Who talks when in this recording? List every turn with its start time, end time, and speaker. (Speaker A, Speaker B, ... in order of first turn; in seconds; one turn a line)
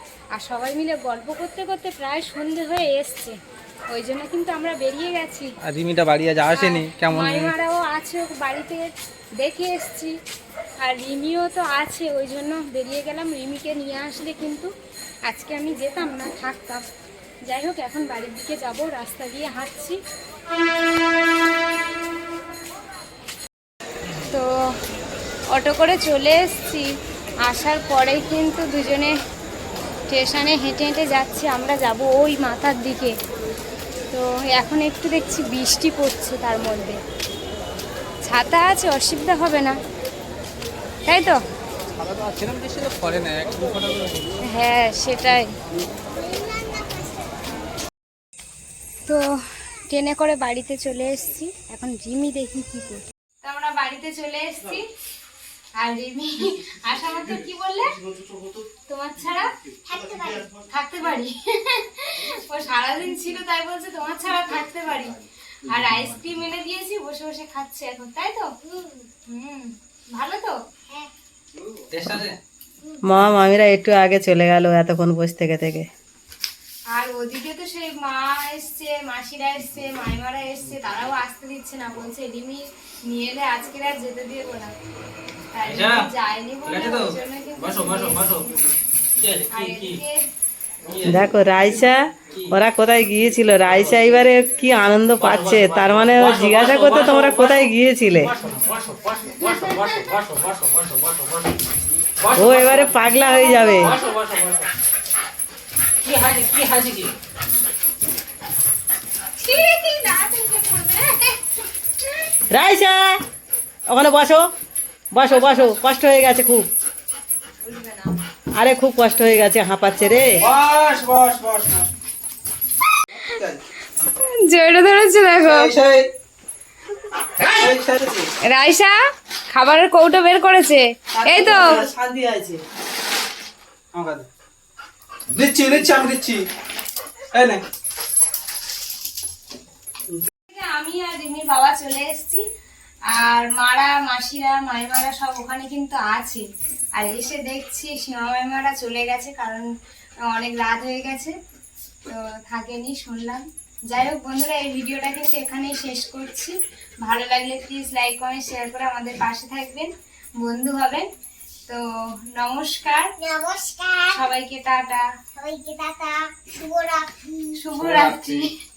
Speaker A: 0.3-3.4
Speaker A: 3.9-5.5
Speaker B: 5.6-7.5
Speaker A: 6.6-10.2
Speaker A: 10.8-14.7
Speaker A: 15.3-16.8
Speaker A: 17.5-20.0
Speaker A: 25.5-26.9
Speaker A: 27.4-29.1
Speaker A: 30.1-33.1
Speaker A: 34.1-37.0
Speaker A: 38.2-39.8
Speaker A: 41.1-41.4
Speaker B: 41.9-44.4
Speaker A: 44.5-45.5
Speaker C: 46.3-46.8
Speaker A: 49.9-54.9
Speaker A: 55.8-57.9
Speaker A: 58.9-59.5
Speaker C: 59.9-60.5
Speaker A: 60.7-68.5
Speaker C: 68.7-69.1
Speaker A: 69.3-70.6
Speaker B: 71.9-72.4
Speaker D: 73.0-75.9
Speaker A: 76.9-84.7
Speaker A: 85.5-88.5
Speaker B: 85.7-86.0
Speaker B: 86.7-88.6
Speaker B: 89.2-90.0
Speaker A: 89.5-90.2
Speaker B: 90.9-91.2
Speaker D: 91.0-98.3
Speaker B: 95.2-97.6
Speaker B: 98.3-101.5
Speaker B: 102.2-103.0
Speaker D: 102.3-104.0
Speaker B: 103.9-104.6
Speaker B: 106.2-107.0
Speaker A: 109.4-111.4
Speaker D: 112.5-113.2
Speaker D: 113.9-114.5
Speaker D: 115.1-116.7
Speaker A: 115.3-115.7
Speaker A: 117.6-118.1
Speaker D: 118.5-120.3
Speaker E: 120.4-121.9
Speaker E: 123.1-123.6
Speaker A: 124.0-125.7
Speaker E: 125.5-126.0
Speaker E: 127.5-128.3
Speaker A: 128.5-128.9
Speaker A: 129.5-131.8
Speaker D: 131.2-132.6
Speaker E: 133.9-134.3
Speaker E: 135.3-136.4
Speaker E: 137.3-137.6
Speaker A: 140.5-142.4
Speaker A: 143.1-146.4
Speaker A: 147.0-149.7
Speaker A: 150.3-151.3
Speaker A: 152.1-161.1
Speaker A: 162.4-163.1
Speaker C: 163.2-164.2
Speaker A: 164.1-165.0
Speaker C: 165.4-167.3
Speaker A: 167.6-168.5